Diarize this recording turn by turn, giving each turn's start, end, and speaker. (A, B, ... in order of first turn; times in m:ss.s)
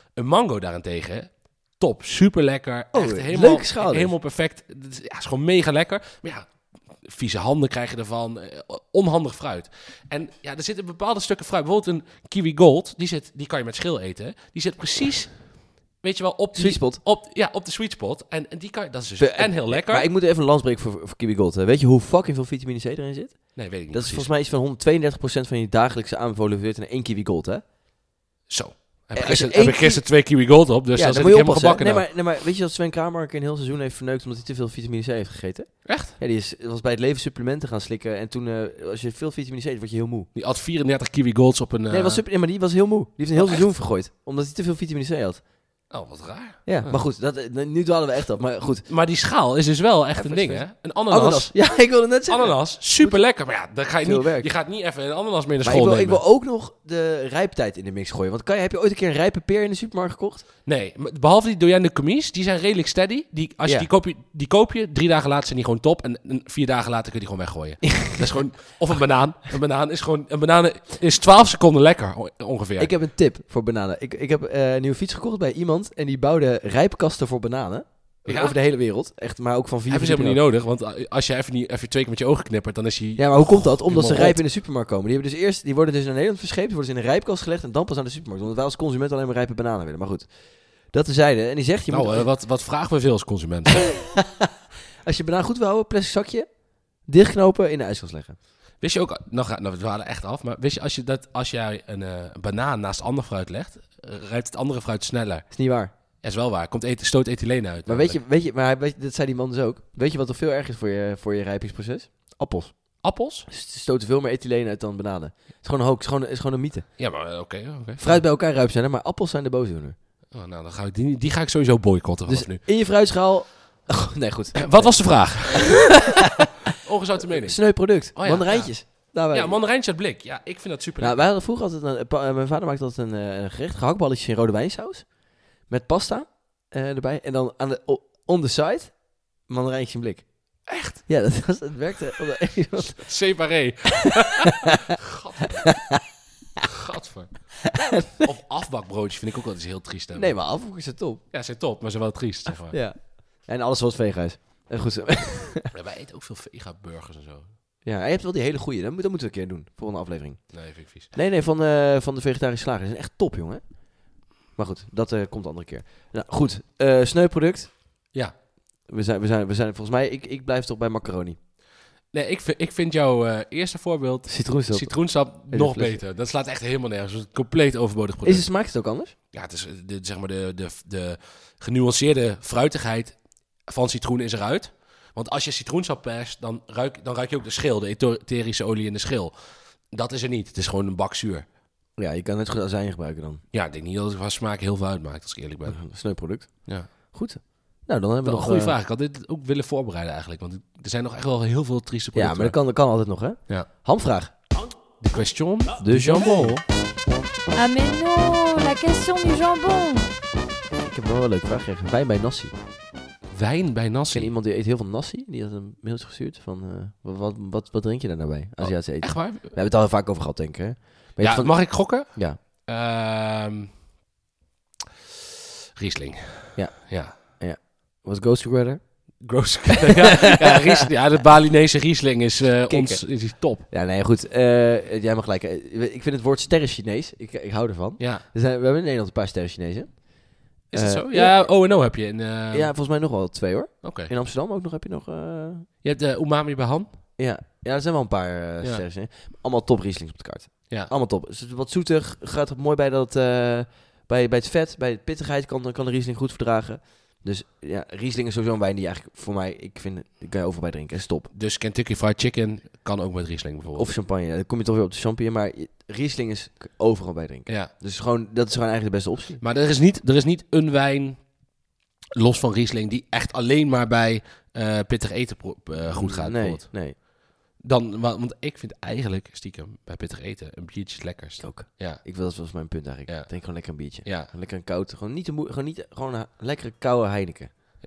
0:00.2-0:20.1 A
0:02.9-0:04.1 B
0:16.6-0:17.0 B
0:19.2-0:27.6 B
0:23.6-0:24.3 A
0:28.5-0:32.1 A
0:29.1-0:30.1 B
0:30.9-0:40.3 B
0:35.8-0:36.2 A
0:40.4-0:42.2 A
0:41.9-0:45.4 B
0:43.4-0:43.7 A
0:45.9-0:47.0 A
0:46.7-0:48.9 B
0:48.9-0:51.7 A
0:50.1-0:53.2 B
0:52.3-0:56.2 A
0:54.0-0:54.5 B
0:55.6-1:00.5 B
1:00.7-1:12.9 A
1:07.9-1:08.2 B
1:12.8-1:20.4 B
1:18.3-1:18.6 A
1:19.9-1:24.4 A
1:23.2-1:32.3 B
1:31.9-1:33.9 A
1:33.8-1:34.5 B
1:35.0-1:36.5 B
1:37.0-1:38.4 B
1:38.8-1:48.2 A
1:45.5-1:45.9 B
1:47.9-1:56.9 B
1:53.0-1:53.5 A
1:57.0-1:58.2 A
1:58.0-2:00.0 B
2:00.3-2:02.6 A
2:02.3-2:06.5 B
2:04.6-2:06.1 A
2:06.8-2:11.3 A
2:07.2-2:09.6 B
2:11.0-2:23.1 B
2:20.7-2:21.0 A
2:23.0-2:26.0 A
2:24.1-2:24.7 B
2:25.5-2:25.8 B
2:26.6-2:30.4 A
2:27.7-2:28.2 B
2:30.2-2:31.2 B
2:31.3-2:32.8 A
2:32.7-2:35.7 B
2:35.7-2:37.5 A
2:37.8-2:48.1 B
2:40.5-2:41.1 A
2:48.8-2:51.4 B
2:52.1-2:58.5 A
2:54.3-2:56.0 B
2:58.2-2:59.1 B
2:59.3-3:09.3 A
3:09.9-3:11.5 A
3:12.0-3:13.4 B
3:13.5-3:15.8 A
3:15.7-3:18.8 B
3:16.6-3:16.9 A
3:18.2-3:22.6 A
3:22.2-3:24.4 B
3:25.0-3:26.6 A
3:25.8-3:26.6 B
3:27.6-3:30.1 C
3:30.8-3:32.5 B
3:33.3-3:34.3 A
3:34.1-3:42.4 B
3:38.6-3:39.5 A
3:41.2-3:43.7 A
3:45.8-3:47.2 A
3:46.6-3:49.2 B
3:49.2-3:53.7 A
3:49.7-3:50.8 B
3:52.7-4:01.5 B
3:58.0-3:58.2 A
4:00.7-4:02.7 A
4:02.5-4:05.7 B
4:03.8-4:04.1 A
4:05.8-4:06.9 A
4:07.2-4:21.3 B
4:21.3-4:23.9 A
4:23.8-4:29.4 B
4:29.4-4:31.4 A
4:32.2-4:36.7 A
4:35.8-4:37.0 B
4:37.6-4:42.0 A
4:41.4-4:47.5 B
4:43.1-4:44.3 A